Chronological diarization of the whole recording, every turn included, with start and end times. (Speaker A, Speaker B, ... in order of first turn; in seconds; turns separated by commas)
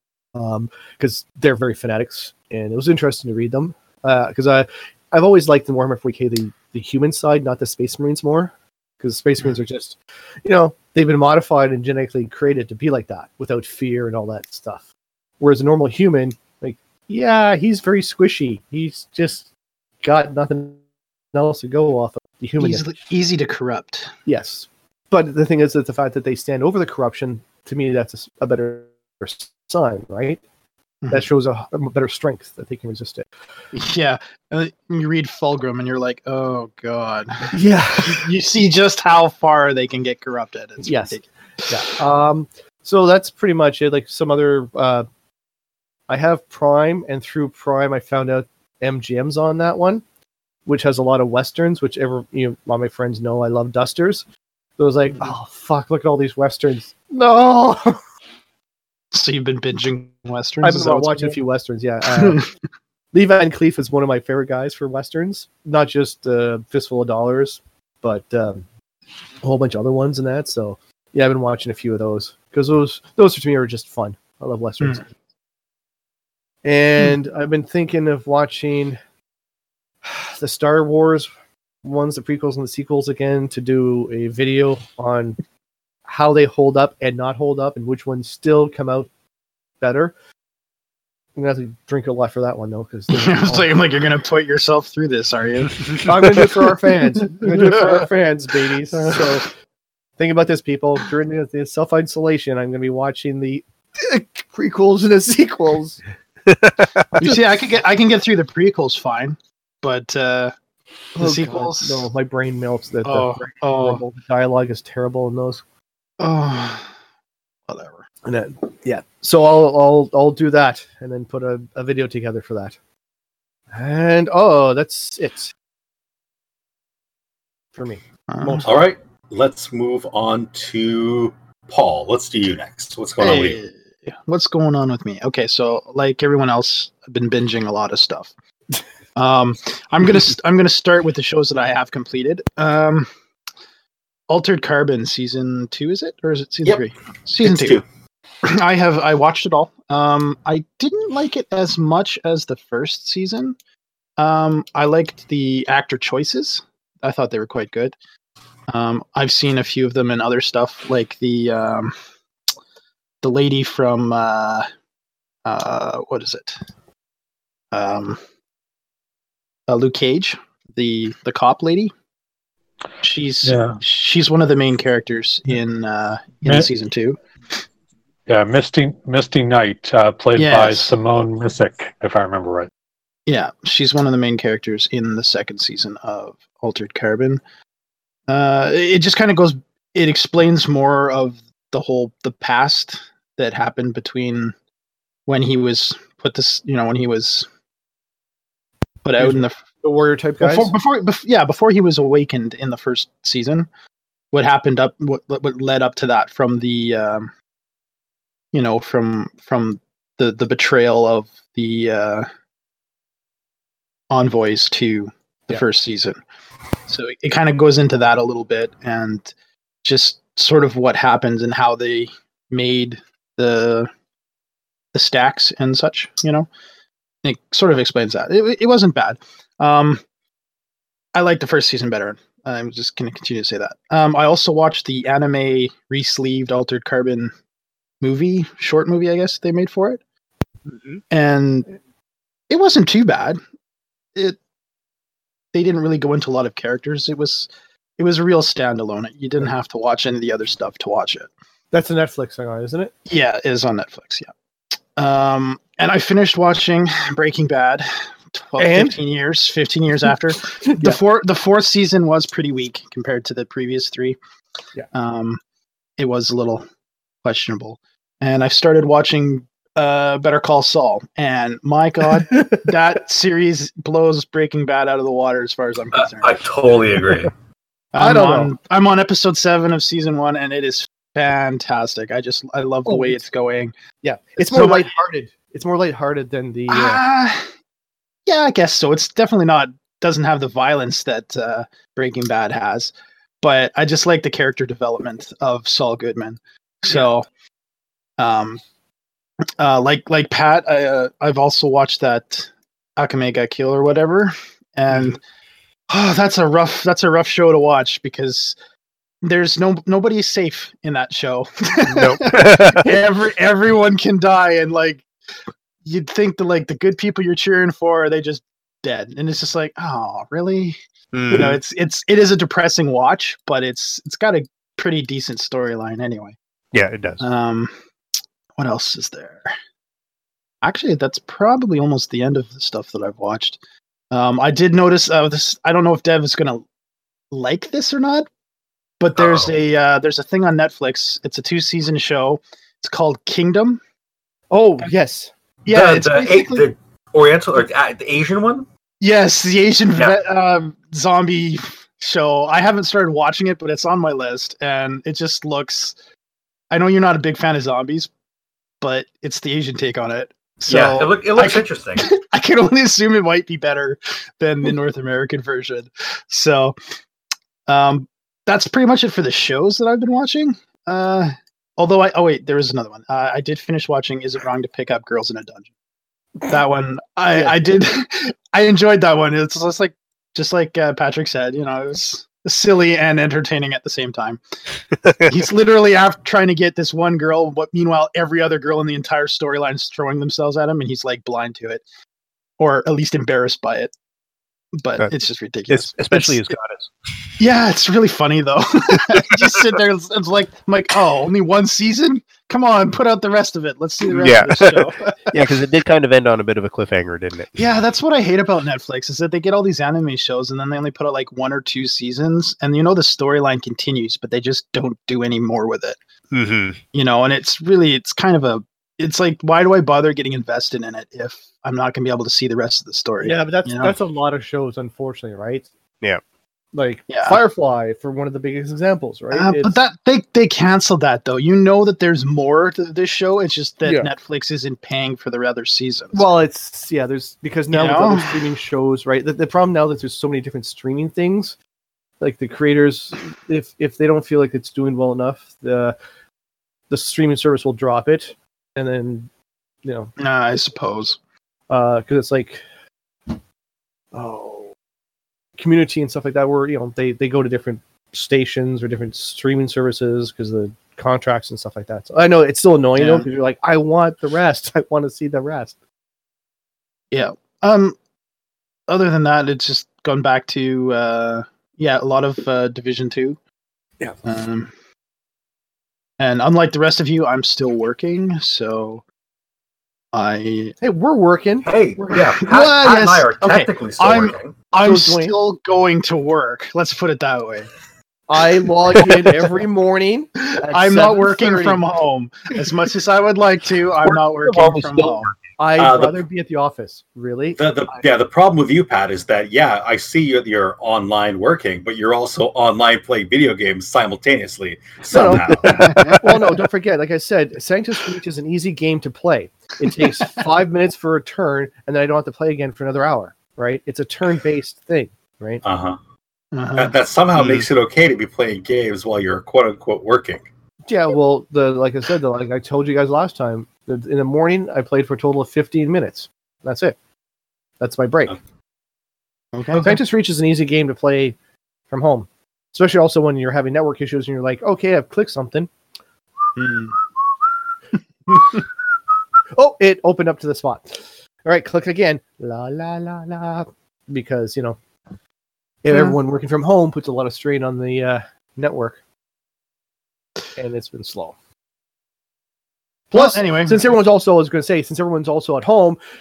Speaker A: 0.3-14.8, Speaker A: 15.4-19.5, Speaker A: 20.0-20.8, Speaker A: 21.3-22.9, Speaker B: 22.6-24.1, Speaker A: 24.3-30.4, Speaker A: 31.1-33.3, Speaker B: 33.7-41.3, Speaker A: 37.5-38.3, Speaker A: 40.8-45.1, Speaker A: 46.1-50.0, Speaker A: 50.7-54.2, Speaker A: 54.8-58.0, Speaker B: 59.1-61.4, Speaker A: 60.6-62.4, Speaker B: 62.2-62.5, Speaker A: 63.1-68.7, Speaker A: 69.4-75.1, Speaker A: 76.6-79.0, Speaker A: 80.0-81.3, Speaker A: 81.8-85.4, Speaker A: 86.1-89.1, Speaker A: 89.8-90.1, Speaker A: 91.4-93.8, Speaker B: 93.1-96.5, Speaker A: 96.0-99.5, Speaker B: 97.2-98.1, Speaker B: 98.9-99.4, Speaker A: 100.2-106.0, Speaker C: 106.5-107.1, Speaker B: 107.2-110.5, Speaker A: 111.2-115.6, Speaker B: 111.2-112.1, Speaker B: 113.0-114.0, Speaker B: 116.2-116.9, Speaker B: 117.7-118.0, Speaker A: 118.2-122.8, Speaker A: 123.7-125.5, Speaker A: 127.8-128.7, Speaker B: 128.3-128.7, Speaker D: 128.6-133.6, Speaker B: 133.2-138.3, Speaker B: 139.2-143.1, Speaker B: 144.3-147.8, Speaker D: 147.4-147.8, Speaker B: 148.4-153.6, Speaker B: 154.2-158.0, Speaker B: 158.7-161.9, Speaker B: 163.2-164.7, Speaker B: 165.4-166.6, Speaker B: 167.7-168.2, Speaker B: 169.7-171.9, Speaker B: 173.0-177.2, Speaker E: 173.4-173.8, Speaker E: 178.3-182.7, Speaker B: 180.3-180.9, Speaker B: 183.3-187.4, Speaker B: 188.3-194.5, Speaker B: 195.3-197.5, Speaker B: 199.0-199.6, Speaker A: 199.2-200.7, Speaker B: 200.4-203.7, Speaker B: 204.3-207.3, Speaker B: 208.5-212.3, Speaker B: 214.1-216.2, Speaker B: 216.9-219.3, Speaker B: 219.8-223.9, Speaker B: 224.9-226.5, Speaker B: 227.2-230.0, Speaker B: 231.1-237.3, Speaker B: 238.0-240.0, Speaker C: 240.7-241.0, Speaker B: 241.1-241.8, Speaker B: 242.5-243.4, Speaker B: 245.5-251.3, Speaker A: 251.7-252.9, Speaker B: 253.1-254.3, Speaker B: 255.0-264.2, Speaker A: 258.6-259.0, Speaker A: 260.6-261.0, Speaker B: 264.9-265.4, Speaker B: 266.0-266.7, Speaker B: 267.2-276.4, Speaker A: 272.3-272.6, Speaker D: 275.9-277.3, Speaker B: 277.9-283.7, Speaker A: 278.0-278.5, Speaker A: 282.9-283.2, Speaker A: 284.0-287.0, Speaker B: 284.5-284.9, Speaker B: 286.7-287.5, Speaker B: 288.3-297.3, Speaker B: 298.2-298.6, Speaker B: 299.6-305.2, Speaker B: 305.9-308.6, Speaker B: 309.2-315.1, Speaker C: 311.9-312.9, Speaker B: 315.8-320.8, Speaker C: 321.1-321.6, Speaker B: 321.3-326.4, Speaker C: 326.7-327.2, Speaker B: 327.2-327.7, Speaker B: 328.6-329.5, Speaker B: 330.6-333.6, Speaker B: 334.1-336.7, Speaker B: 337.3-338.3, Speaker B: 339.0-343.8, Speaker D: 339.2-339.5, Speaker A: 344.5-346.7, Speaker D: 345.7-348.7, Speaker B: 349.0-355.9, Speaker B: 356.7-358.1, Speaker B: 358.8-366.8, Speaker D: 360.7-362.1, Speaker B: 367.7-375.7, Speaker B: 376.5-384.4, Speaker B: 385.3-391.8, Speaker B: 392.6-393.9, Speaker B: 394.8-396.4, Speaker C: 395.7-397.4, Speaker B: 397.4-405.3, Speaker C: 404.1-407.5, Speaker B: 407.6-416.0, Speaker C: 416.3-416.8, Speaker B: 416.9-423.9, Speaker A: 423.2-425.7, Speaker A: 426.7-429.8, Speaker B: 427.1-427.4, Speaker B: 429.3-436.3, Speaker A: 433.8-434.1, Speaker A: 436.1-441.6, Speaker B: 437.7-438.5, Speaker A: 442.2-445.9, Speaker A: 446.9-449.3, Speaker A: 449.8-450.1, Speaker B: 450.2-451.2, Speaker A: 451.7-452.6, Speaker A: 454.1-454.7, Speaker A: 455.6-465.8, Speaker B: 463.0-463.3, Speaker B: 467.1-468.0, Speaker B: 468.9-473.4, Speaker B: 474.2-474.7, Speaker B: 476.2-479.0, Speaker B: 480.1-480.8, Speaker A: 480.8-483.7, Speaker D: 481.7-484.6, Speaker B: 484.0-487.7, Speaker A: 484.8-485.4, Speaker A: 488.3-491.8, Speaker B: 490.6-495.3, Speaker A: 494.4-497.6, Speaker D: 495.8-496.2, Speaker D: 497.6-506.2, Speaker A: 505.1-515.6, Speaker C: 505.5-506.2, Speaker B: 505.8-506.2, Speaker D: 515.6-516.0, Speaker B: 516.5-516.9, Speaker D: 516.7-520.5, Speaker C: 517.4-517.7, Speaker A: 520.9-527.0, Speaker A: 527.8-528.4, Speaker B: 529.5-530.0, Speaker D: 529.7-530.0, Speaker A: 529.8-531.4, Speaker A: 531.9-535.7, Speaker B: 536.6-537.0, Speaker A: 539.5-544.8, Speaker A: 545.8-549.0, Speaker B: 545.9-546.2, Speaker A: 550.6-551.4, Speaker B: 553.1-553.8, Speaker A: 553.1-556.0